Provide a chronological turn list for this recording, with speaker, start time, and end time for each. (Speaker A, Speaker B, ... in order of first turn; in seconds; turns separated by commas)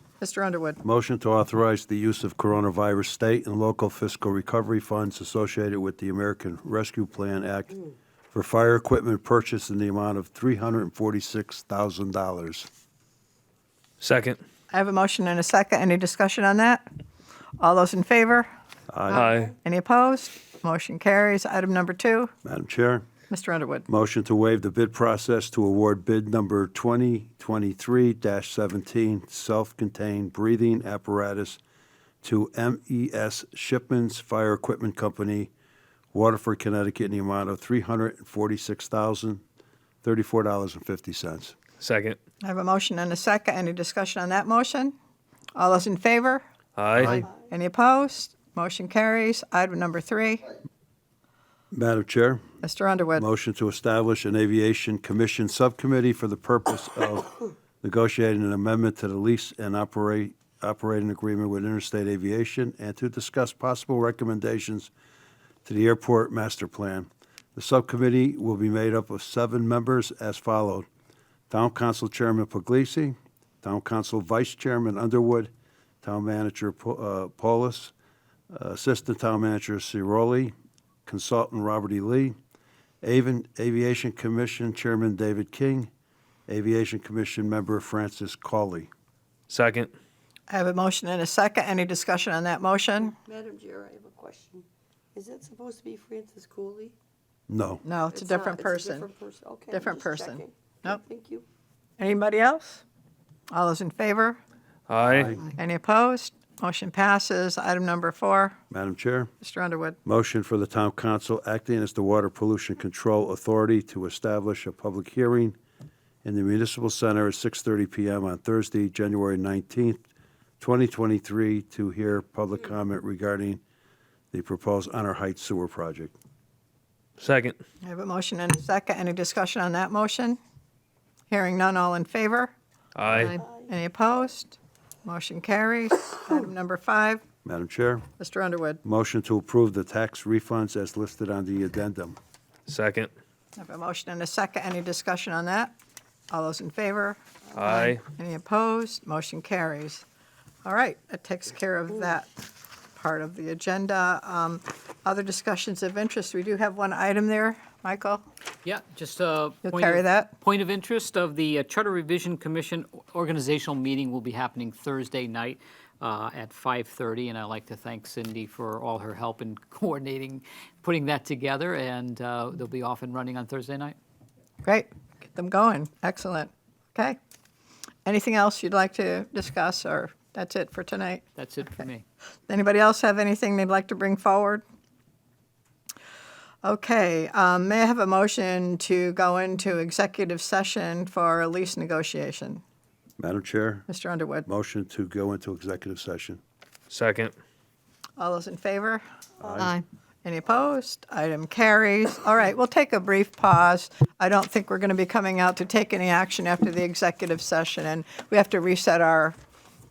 Speaker A: 0.2-0.8, Speaker B: 0.8-12.7, Speaker C: 14.0-14.4, Speaker A: 14.7-16.9, Speaker A: 17.6-18.5, Speaker B: 18.9-19.3, Speaker C: 19.1-19.6, Speaker A: 19.6-22.3, Speaker B: 22.4-23.1, Speaker A: 23.3-23.9, Speaker B: 23.9-31.6, Speaker B: 32.2-35.5, Speaker B: 36.1-39.4, Speaker B: 40.0-41.5, Speaker C: 41.8-42.2, Speaker A: 42.4-45.0, Speaker A: 45.6-46.5, Speaker C: 46.8-47.2, Speaker B: 47.0-47.3, Speaker A: 47.0-50.4, Speaker B: 51.7-52.4, Speaker A: 52.6-53.2, Speaker B: 53.2-64.9, Speaker B: 65.7-70.9, Speaker B: 71.5-75.5, Speaker B: 76.0-77.9, Speaker B: 78.5-80.5, Speaker B: 81.1-82.3, Speaker B: 83.0-85.9, Speaker B: 86.5-88.9, Speaker C: 89.5-89.9, Speaker A: 90.5-93.2, Speaker D: 93.2-97.0, Speaker B: 97.5-97.8, Speaker A: 97.8-99.1, Speaker D: 98.1-101.5, Speaker A: 99.7-101.0, Speaker A: 102.0-102.8, Speaker A: 103.5-104.4, Speaker C: 104.9-105.4, Speaker B: 105.1-105.4, Speaker A: 105.4-108.6, Speaker B: 108.7-109.3, Speaker A: 109.4-110.0, Speaker B: 110.0-115.6, Speaker B: 116.2-120.0, Speaker B: 120.6-123.6, Speaker B: 124.3-126.2, Speaker C: 127.2-127.6, Speaker A: 127.8-130.4, Speaker A: 131.3-132.5, Speaker C: 133.0-133.4, Speaker A: 133.7-137.2, Speaker B: 137.4-138.1, Speaker A: 138.2-138.8, Speaker B: 138.8-142.2, Speaker C: 142.7-143.1, Speaker A: 143.6-145.7, Speaker A: 146.3-150.1, Speaker C: 147.6-148.0, Speaker A: 150.6-152.4, Speaker A: 152.9-158.2, Speaker E: 158.6-174.0, Speaker A: 159.7-160.3, Speaker A: 174.6-177.2, Speaker A: 178.1-181.2, Speaker E: 181.4-182.0, Speaker A: 182.5-184.6, Speaker A: 186.6-192.6, Speaker B: 193.2-193.9, Speaker A: 193.9-194.4, Speaker B: 194.5-196.4, Speaker C: 196.9-197.3, Speaker A: 198.2-199.0, Speaker B: 199.4-199.8, Speaker A: 200.2-209.4